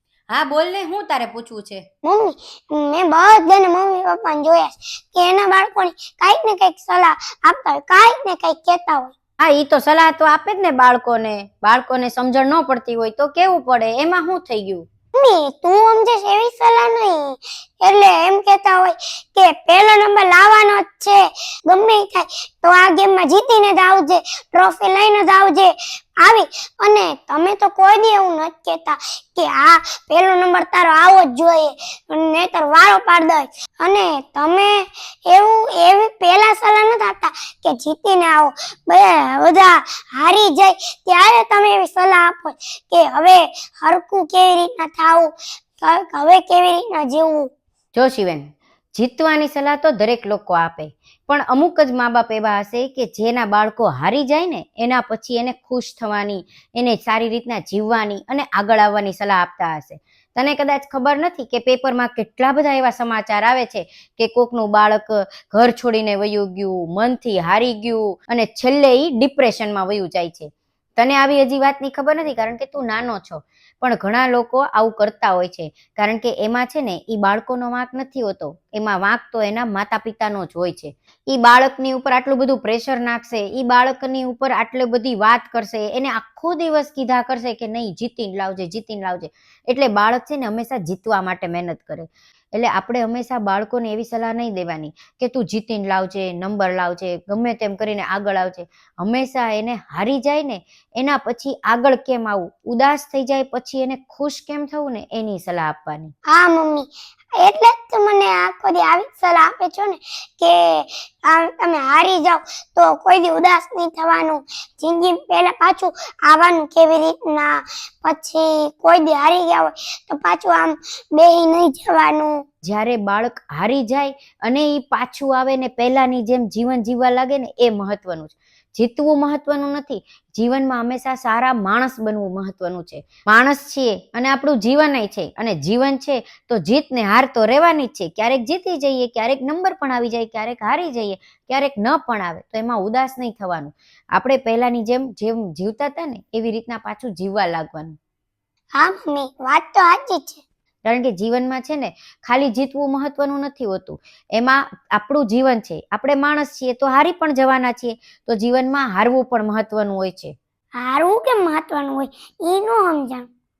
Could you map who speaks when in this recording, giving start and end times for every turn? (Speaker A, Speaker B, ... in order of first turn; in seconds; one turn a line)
Speaker A: 0.3-1.9
Speaker B: 2.0-9.1
Speaker A: 9.4-14.8
Speaker B: 15.2-47.5
Speaker A: 48.0-106.1
Speaker B: 106.3-122.4
Speaker A: 122.6-148.0
Speaker B: 148.8-150.4
Speaker A: 150.8-160.3
Speaker B: 160.8-163.3